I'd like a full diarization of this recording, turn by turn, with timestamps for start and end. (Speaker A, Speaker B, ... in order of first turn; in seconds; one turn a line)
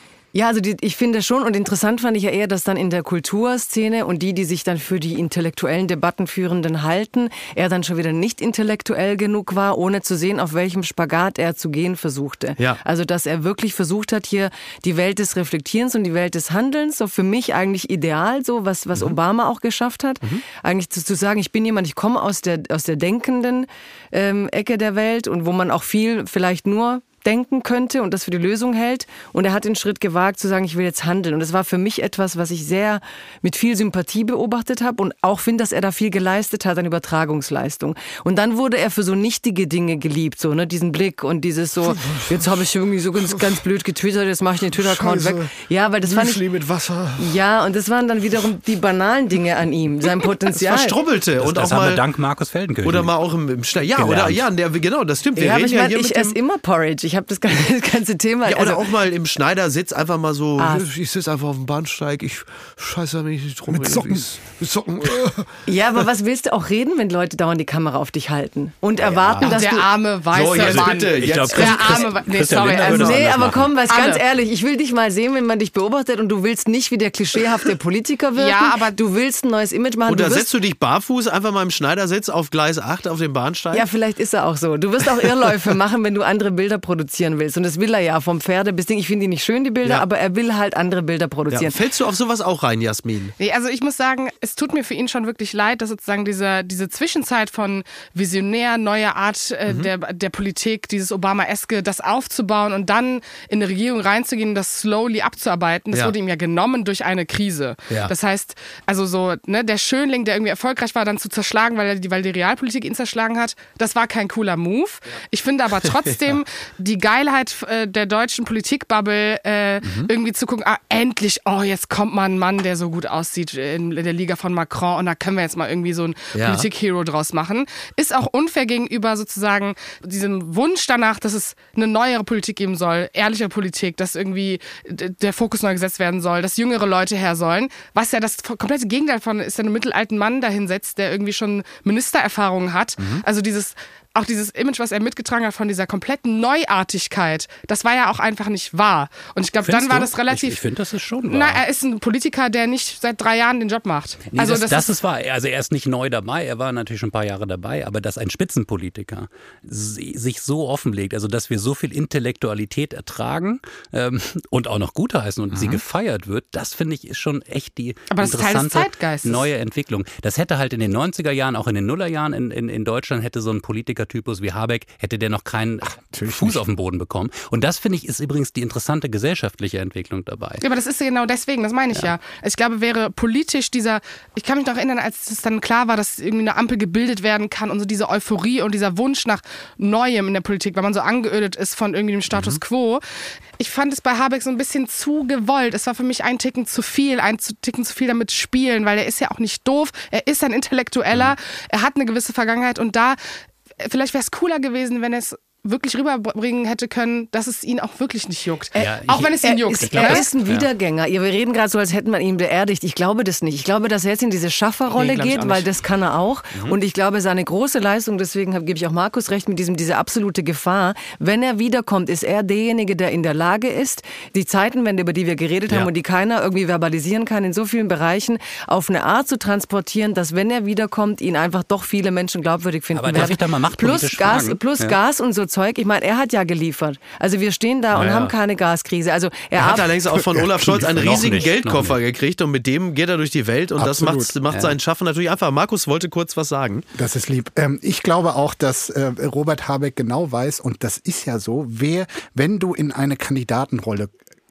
Speaker A: 0.3-46.5
Speaker B: 46.1-47.2
Speaker A: 47.2-51.0
Speaker B: 50.5-52.0
Speaker C: 51.4-53.1
Speaker B: 52.8-56.4
Speaker C: 54.0-54.4
Speaker A: 55.4-58.9
Speaker B: 58.5-65.3
Speaker A: 60.6-60.9
Speaker D: 63.7-64.2
Speaker A: 65.7-69.9
Speaker B: 69.0-69.5
Speaker E: 69.4-73.3
Speaker B: 70.3-72.1
Speaker C: 70.5-73.7
Speaker B: 72.7-73.6
Speaker A: 72.9-80.5
Speaker E: 73.8-74.2
Speaker E: 78.4-79.0
Speaker B: 80.1-83.9
Speaker A: 83.7-91.7
Speaker B: 91.5-93.3
Speaker E: 93.4-150.6
Speaker B: 99.7-99.9
Speaker B: 107.9-108.1
Speaker B: 119.8-120.1
Speaker B: 126.3-126.7
Speaker B: 143.0-143.2
Speaker C: 149.6-151.6
Speaker E: 151.3-154.9
Speaker C: 154.3-180.6
Speaker E: 168.1-169.4
Speaker D: 176.0-176.6
Speaker E: 180.6-193.0
Speaker B: 192.3-192.6
Speaker E: 193.6-203.2
Speaker E: 203.8-210.3
Speaker C: 208.8-210.7
Speaker A: 209.4-240.1
Speaker E: 214.9-215.7
Speaker C: 232.9-235.0
Speaker B: 237.9-238.3
Speaker B: 239.6-246.9
Speaker C: 240.6-242.0
Speaker D: 243.8-244.3
Speaker D: 246.9-254.2